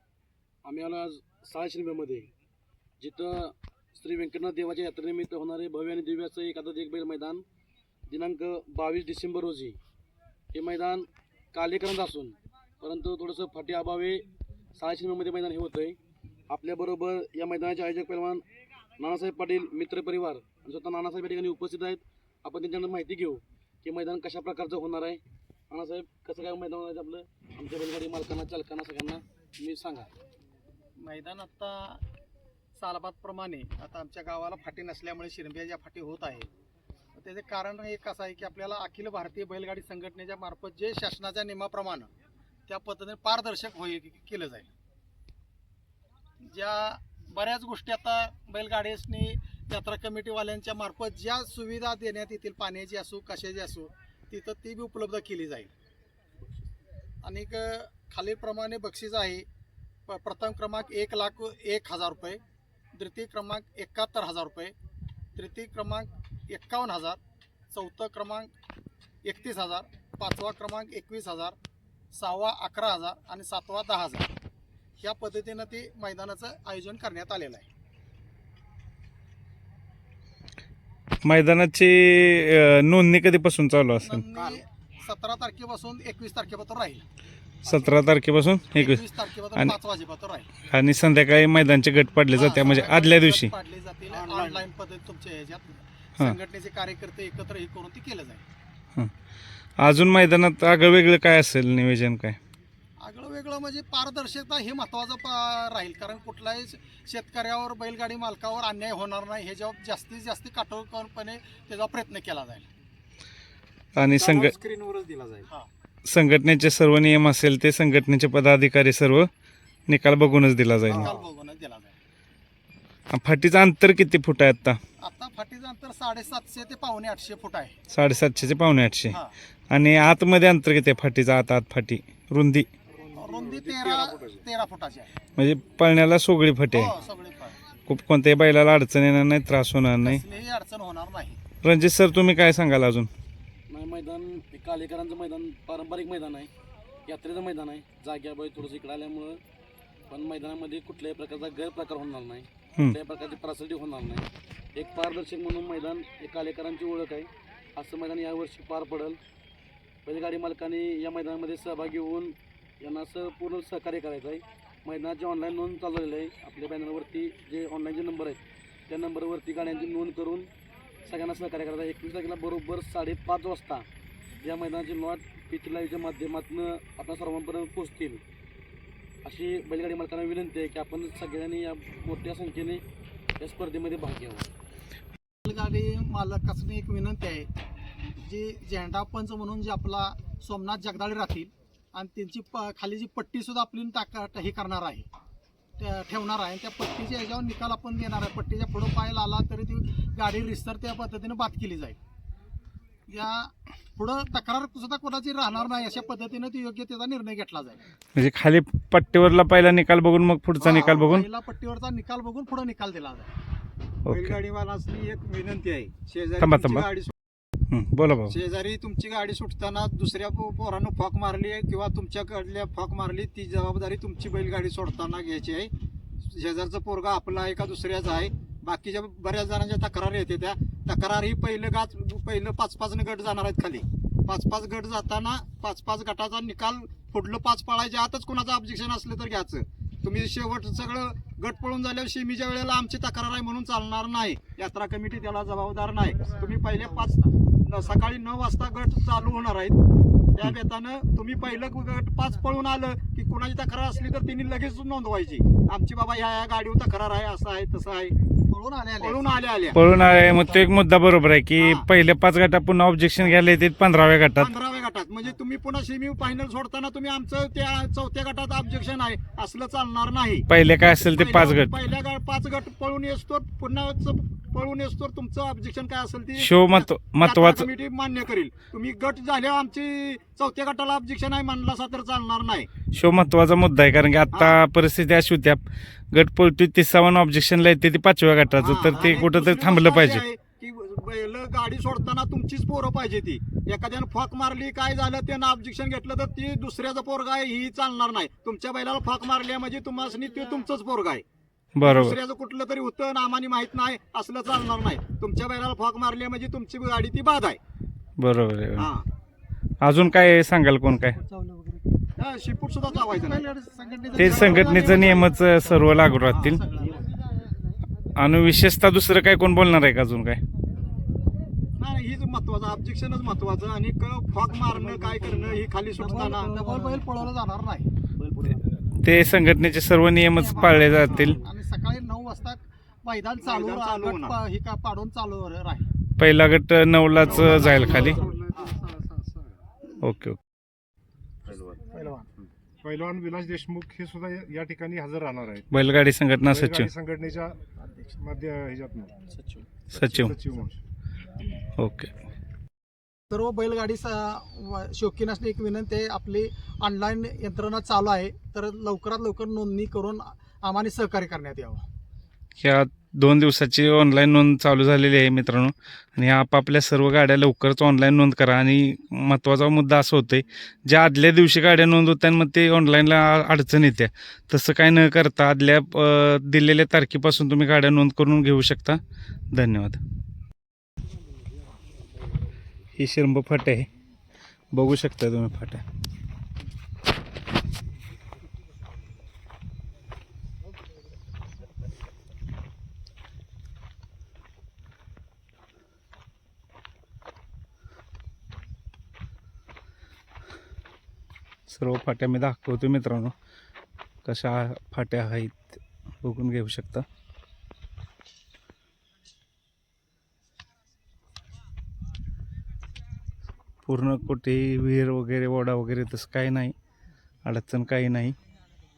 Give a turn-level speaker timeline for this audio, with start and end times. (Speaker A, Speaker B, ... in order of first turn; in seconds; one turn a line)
Speaker A: 0.7-2.3
Speaker A: 3.0-7.4
Speaker A: 8.1-9.8
Speaker A: 10.5-16.0
Speaker A: 16.5-18.4
Speaker A: 19.0-30.1
Speaker B: 31.0-32.0
Speaker B: 32.8-36.5
Speaker B: 37.2-42.1
Speaker B: 42.7-44.7
Speaker B: 46.4-55.7
Speaker A: 56.4-56.7
Speaker B: 57.2-59.5
Speaker B: 60.1-62.4
Speaker B: 62.9-64.7
Speaker B: 65.3-67.2
Speaker B: 67.7-68.5
Speaker B: 69.2-71.5
Speaker B: 72.1-74.3
Speaker B: 75.0-77.7
Speaker C: 81.2-84.2
Speaker B: 84.0-87.0
Speaker D: 84.3-84.6
Speaker C: 87.7-89.0
Speaker D: 87.7-87.9
Speaker B: 88.7-90.5
Speaker C: 90.7-93.5
Speaker B: 92.3-98.4
Speaker D: 94.1-94.7
Speaker C: 99.8-102.4
Speaker B: 103.0-112.7
Speaker C: 114.0-114.5
Speaker D: 114.2-115.5
Speaker C: 116.0-119.3
Speaker C: 119.9-121.1
Speaker D: 120.9-121.3
Speaker B: 120.9-121.9
Speaker C: 123.1-124.8
Speaker B: 125.0-127.8
Speaker C: 127.9-132.7
Speaker B: 129.1-129.3
Speaker B: 133.1-135.1
Speaker C: 135.4-136.9
Speaker B: 136.7-137.6
Speaker C: 137.9-140.2
Speaker B: 140.0-141.4
Speaker C: 141.6-143.1
Speaker A: 143.7-146.5
Speaker A: 147.1-149.4
Speaker A: 150.1-159.2
Speaker A: 160.1-170.5
Speaker A: 171.0-173.8
Speaker A: 174.4-178.2
Speaker A: 179.2-182.8
Speaker A: 183.4-184.5
Speaker B: 185.4-187.5
Speaker B: 188.2-195.1
Speaker B: 195.8-202.0
Speaker B: 203.1-207.8
Speaker C: 208.2-211.3
Speaker B: 210.6-213.3
Speaker C: 214.1-214.3
Speaker D: 214.1-217.1
Speaker C: 216.4-216.9
Speaker C: 217.7-218.3
Speaker D: 218.3-225.7
Speaker D: 226.2-249.8
Speaker D: 250.3-258.1
Speaker B: 258.5-259.4
Speaker D: 259.0-259.8
Speaker C: 259.8-264.5
Speaker B: 260.2-260.6
Speaker D: 261.6-261.9
Speaker D: 264.4-282.7
Speaker C: 270.5-271.8
Speaker C: 276.4-277.7
Speaker C: 282.9-290.2
Speaker D: 284.3-284.6
Speaker D: 288.6-301.2
Speaker C: 301.8-302.2
Speaker D: 301.8-307.6
Speaker C: 308.2-308.9
Speaker D: 308.8-309.1
Speaker C: 309.8-311.2
Speaker B: 311.2-311.9
Speaker D: 312.2-313.4
Speaker B: 312.9-317.1
Speaker C: 314.1-316.6
Speaker D: 314.2-315.3
Speaker D: 316.3-317.0
Speaker C: 318.2-320.4
Speaker D: 321.8-326.6
Speaker A: 324.6-327.3
Speaker B: 326.0-327.9
Speaker A: 328.1-328.7
Speaker C: 329.0-331.4
Speaker B: 330.3-335.9
Speaker D: 330.8-331.4
Speaker D: 333.4-334.4
Speaker C: 336.2-338.2
Speaker D: 337.3-338.2
Speaker B: 337.3-338.2
Speaker A: 337.6-338.2
Speaker E: 338.0-339.5
Speaker C: 340.0-340.4
Speaker E: 341.5-341.8
Speaker B: 341.9-342.3
Speaker E: 342.8-345.7
Speaker C: 345.7-346.9
Speaker E: 346.4-347.6
Speaker B: 347.8-348.2
Speaker E: 348.2-349.2
Speaker A: 349.3-349.7
Speaker C: 349.9-350.4
Speaker E: 350.0-350.8
Speaker C: 351.8-352.1
Speaker B: 353.3-361.9
Speaker C: 362.6-379.0
Speaker C: 379.5-380.0
Speaker C: 382.9-383.9
Speaker C: 384.7-385.8
Speaker C: 401.7-403.3
Speaker C: 404.2-407.1
Speaker C: 413.9-416.7
Speaker C: 417.4-418.4